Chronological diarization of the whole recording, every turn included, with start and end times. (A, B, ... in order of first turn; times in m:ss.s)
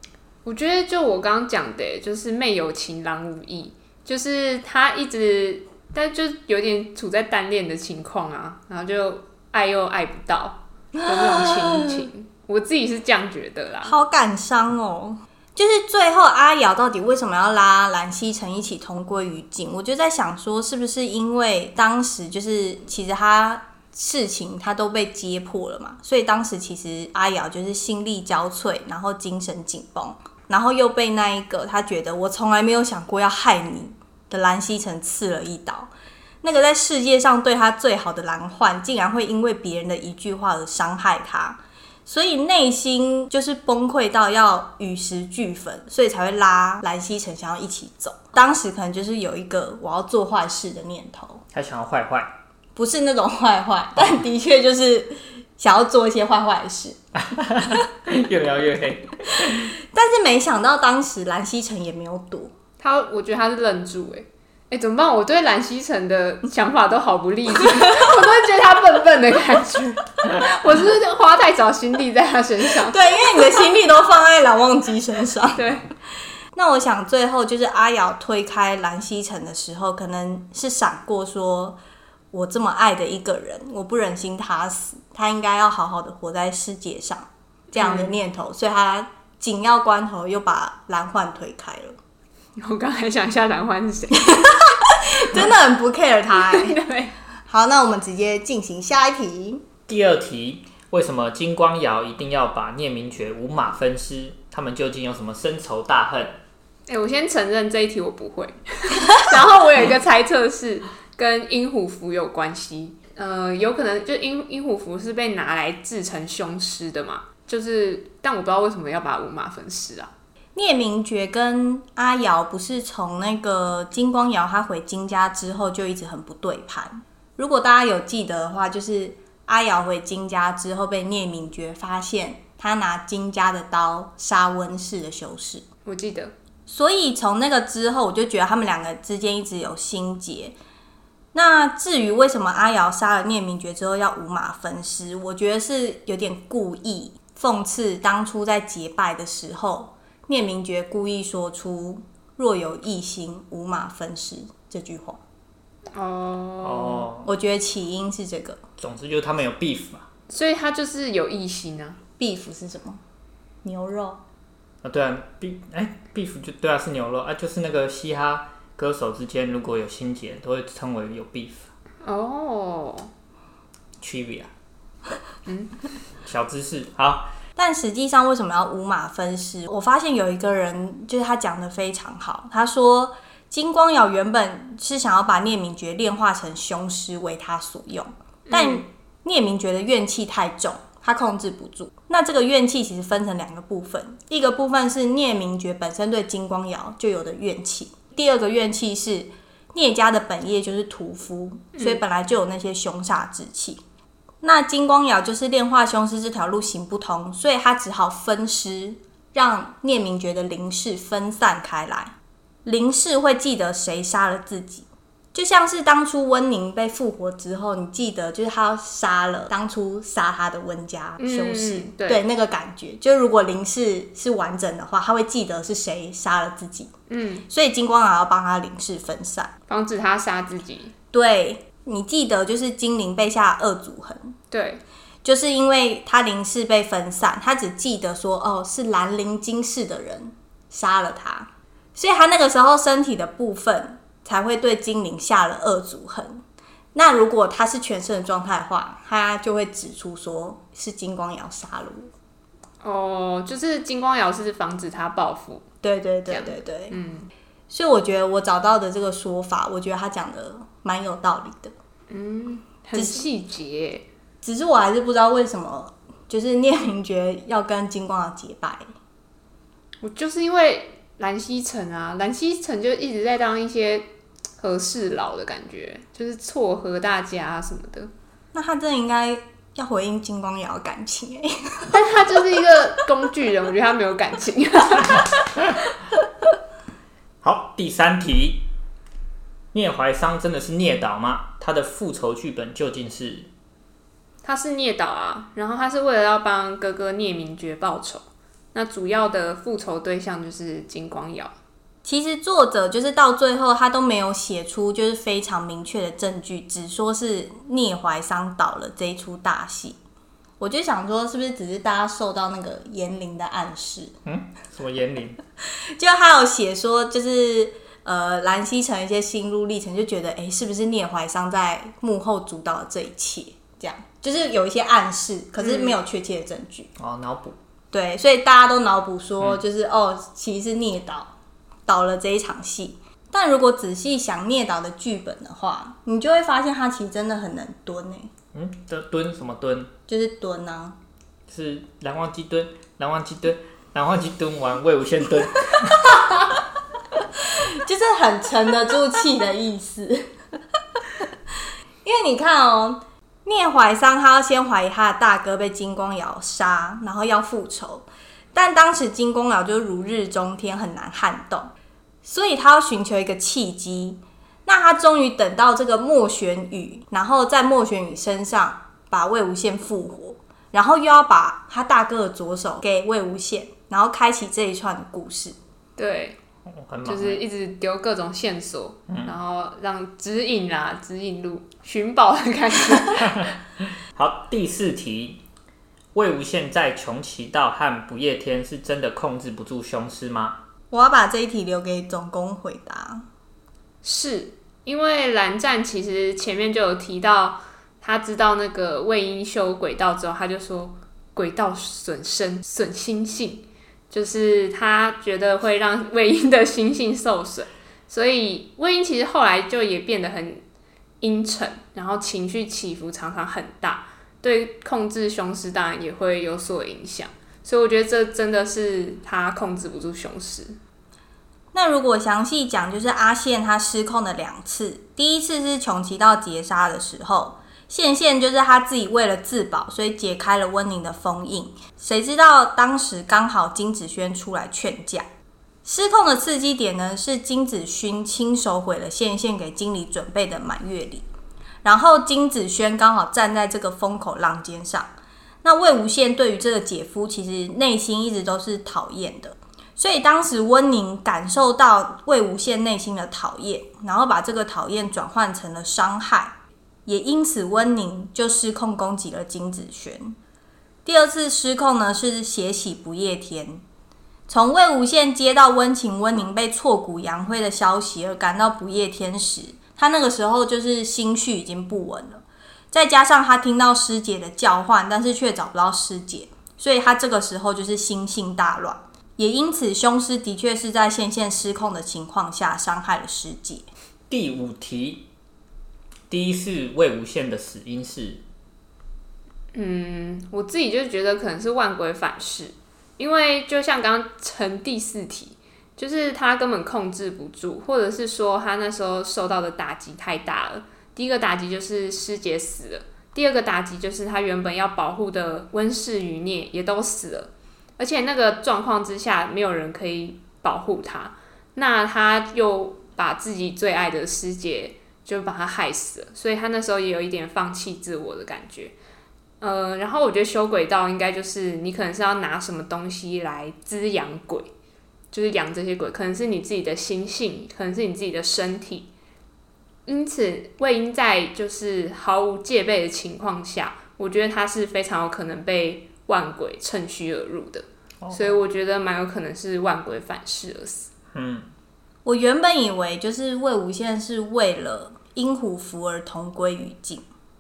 0:00.4-0:14.0 A
0:11.0-0:12.0 B
0:13.8-0:35.9 B
0:36.4-0:51.4 B
0:51.5-0:52.3 C
0:52.8-0:57.0 B
0:57.2-0:59.8 C
0:59.9-1:02.5 B
1:02.8-1:13.4 A
1:07.7-1:08.1 B
1:12.8-1:15.6 B
1:15.6-1:15.8 A
1:16.5-1:21.8 B
1:22.3-1:32.0 B
1:27.8-1:28.1 A
1:32.6-1:34.5 A
1:34.2-1:36.8 B
1:36.3-1:37.1 A
1:37.5-1:39.6 B
1:39.9-1:46.4 C
1:46.9-2:00.1 A
2:00.6-2:15.6 B
2:15.8-2:16.3 A
2:16.7-2:20.6 B
2:21.3-2:35.2 B
2:35.9-2:37.1 A
2:36.6-2:37.3 C
2:37.2-2:38.6 B
2:38.8-2:40.1 C
2:40.3-2:42.0 A
2:42.2-2:43.0 B
2:43.6-2:44.2 B
2:44.8-2:51.7 C
2:52.0-2:53.1 A
2:54.0-2:54.5 C
2:55.5-2:55.7 A
2:56.2-2:57.3 C
2:57.6-3:23.8 B
3:08.5-3:08.8 A
3:21.8-3:22.0 A
3:24.4-3:46.9 B
3:41.2-3:42.2 A
3:47.1-3:47.4 A
3:47.5-3:49.5 B
3:49.7-3:50.9 A
3:51.1-3:54.4 B
3:54.5-3:54.8 A
3:55.2-4:06.4 B
4:07.0-4:12.1 B
4:12.8-4:15.6 A
4:15.8-4:17.0 B
4:16.3-4:17.3 A
4:17.7-4:21.7 B
4:22.1-4:24.1 A
4:23.0-4:23.3 B
4:24.4-4:28.9 B
4:30.0-4:34.1 A
4:34.6-4:38.1 A
4:38.5-4:42.0 B
4:41.9-4:45.3 A
4:47.4-4:48.7 C
4:49.7-4:53.5 C
4:54.4-5:01.5 A
5:02.0-5:10.0 B
5:10.6-5:14.1 B
5:14.2-5:15.4 C
5:15.6-5:26.9 B
5:27.0-5:27.6 C
5:27.9-5:31.3 B
5:31.9-5:38.3 B
5:38.5-5:39.9 C
5:40.1-5:41.0 B
5:41.5-5:46.2 C
5:47.4-5:50.3 B
5:51.0-5:51.3 B
5:52.0-6:01.7 B
6:02.2-6:15.6 B
6:16.0-6:16.4 A
6:16.7-6:17.4 C
6:17.1-6:23.5 A
6:19.1-6:19.3 C
6:24.1-6:25.4 C
6:26.2-6:30.6 C
6:30.9-6:33.3 B
6:34.0-6:50.6 A
6:51.2-7:00.8 A
7:01.7-7:15.3 B
7:15.8-7:21.2 B
7:21.8-7:25.1 B
7:25.6-7:36.6 B
7:37.1-7:40.4 B
7:41.1-7:43.8 B
7:44.5-8:03.9 B
8:04.3-8:05.3 C
8:06.3-8:08.4 C
8:09.7-8:39.0 A
8:39.6-8:44.7 A
8:45.3-8:49.1 A
8:50.1-9:01.1 A
8:58.2-8:58.6 C
9:01.3-9:01.7 C
9:02.2-9:07.3 B